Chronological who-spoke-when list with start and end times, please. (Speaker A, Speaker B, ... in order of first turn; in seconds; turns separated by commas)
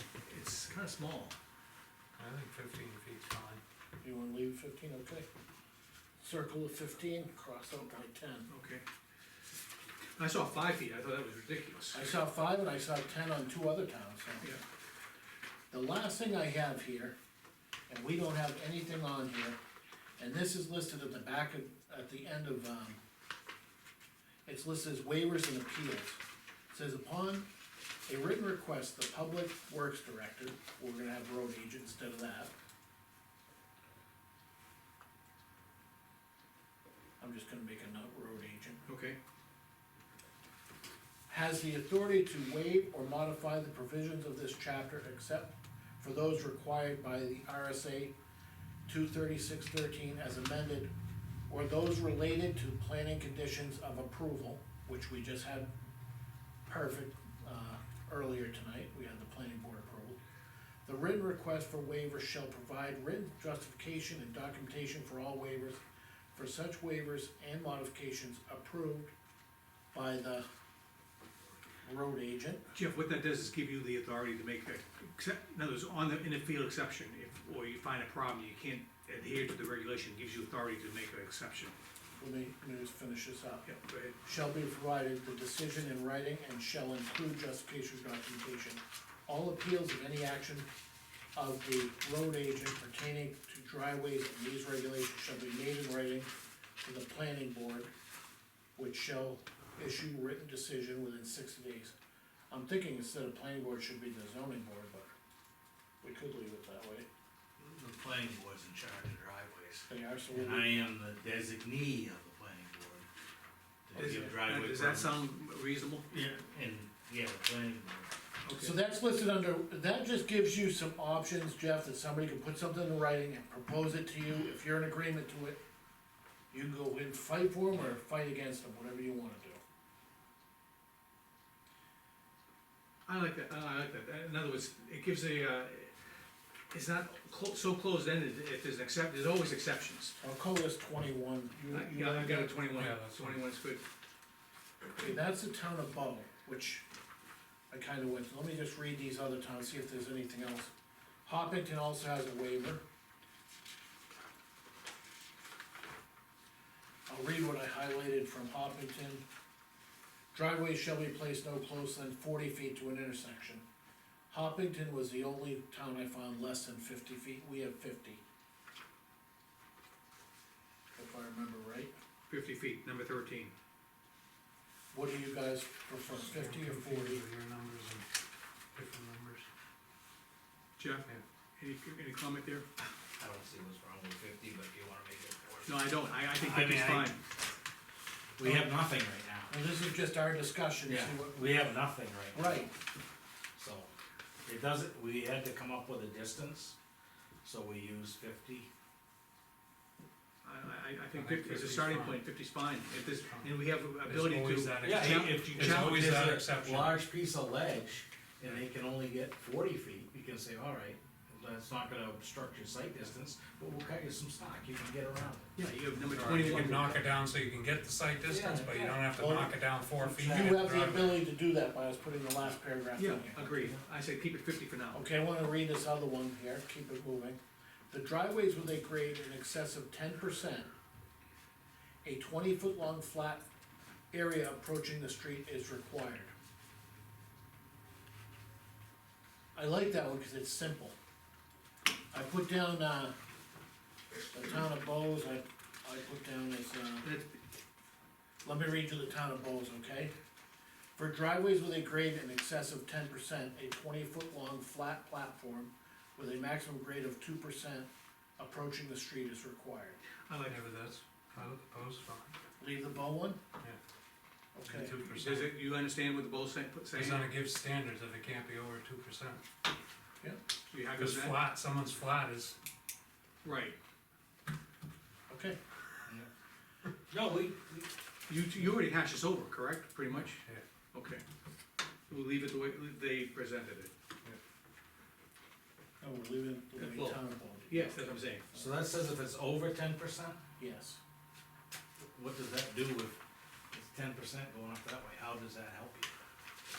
Speaker A: 0.2-1.3, Speaker B: 2.1-3.6, Speaker C: 4.0-5.2, Speaker C: 6.2-8.5, Speaker A: 8.5-8.8, Speaker A: 10.2-12.2, Speaker C: 11.9-14.5, Speaker C: 15.7-17.1, Speaker C: 17.9-19.6, Speaker C: 20.2-23.0, Speaker C: 24.5-26.2, Speaker C: 26.7-27.5, Speaker C: 28.1-32.5, Speaker C: 37.2-38.8, Speaker A: 38.9-39.2, Speaker C: 41.3-48.1, Speaker C: 48.9-50.9, Speaker C: 51.5-55.7, Speaker C: 56.7-60.2, Speaker C: 60.8-65.8, Speaker C: 66.3-69.1, Speaker C: 69.9-70.5, Speaker C: 71.8-72.6, Speaker A: 72.7-81.7, Speaker C: 82.2-83.7, Speaker A: 83.7-84.2, Speaker C: 84.2-90.7, Speaker C: 91.3-96.3, Speaker C: 96.8-97.9, Speaker C: 98.8-101.9, Speaker C: 102.5-105.1, Speaker C: 106.0-107.1, Speaker D: 107.6-113.0, Speaker C: 109.9-110.9, Speaker D: 113.9-115.2, Speaker A: 113.9-116.2, Speaker D: 116.1-118.1, Speaker A: 118.4-118.8, Speaker C: 118.6-125.6, Speaker C: 126.5-129.6, Speaker A: 133.1-135.9, Speaker A: 136.7-140.2, Speaker C: 140.2-142.6, Speaker A: 141.7-143.8, Speaker B: 142.8-143.4, Speaker C: 145.0-146.8, Speaker C: 147.7-150.7, Speaker C: 151.3-152.8, Speaker C: 157.1-159.2, Speaker C: 160.3-163.7, Speaker C: 164.3-168.2, Speaker C: 170.9-171.9, Speaker A: 172.3-173.5, Speaker C: 174.9-177.2, Speaker B: 176.1-178.1, Speaker B: 178.7-179.5, Speaker A: 180.8-182.7, Speaker D: 183.2-187.1, Speaker A: 185.7-187.2, Speaker D: 188.4-189.6, Speaker C: 188.4-188.7, Speaker C: 189.5-191.6, Speaker D: 190.9-192.7, Speaker C: 192.3-192.7, Speaker D: 193.6-193.9, Speaker D: 194.5-196.8, Speaker D: 197.4-198.7, Speaker A: 200.4-206.2, Speaker B: 201.1-202.2, Speaker B: 203.0-207.0, Speaker D: 204.8-215.5, Speaker A: 215.6-217.0, Speaker B: 216.1-221.2, Speaker D: 218.2-219.2, Speaker C: 219.1-223.7, Speaker A: 223.0-225.0, Speaker C: 224.9-227.4, Speaker C: 227.9-230.7, Speaker C: 232.0-233.4, Speaker C: 234.1-236.3, Speaker C: 239.5-241.0, Speaker C: 242.1-243.1, Speaker C: 244.3-247.1, Speaker A: 247.0-247.3, Speaker C: 248.4-250.1, Speaker C: 251.0-260.0, Speaker A: 260.3-260.6, Speaker B: 260.4-262.4, Speaker C: 262.6-263.4, Speaker C: 264.6-264.9, Speaker B: 264.6-265.5, Speaker A: 265.0-267.3, Speaker B: 266.9-269.4, Speaker A: 270.7-271.4, Speaker B: 270.9-272.6, Speaker A: 273.4-273.8, Speaker C: 275.3-275.6, Speaker D: 277.1-277.9, Speaker A: 278.3-281.2, Speaker A: 282.1-283.9, Speaker C: 286.0-288.0, Speaker A: 286.8-288.4, Speaker D: 288.5-290.4, Speaker C: 290.6-291.0, Speaker D: 292.0-293.2, Speaker D: 293.7-296.1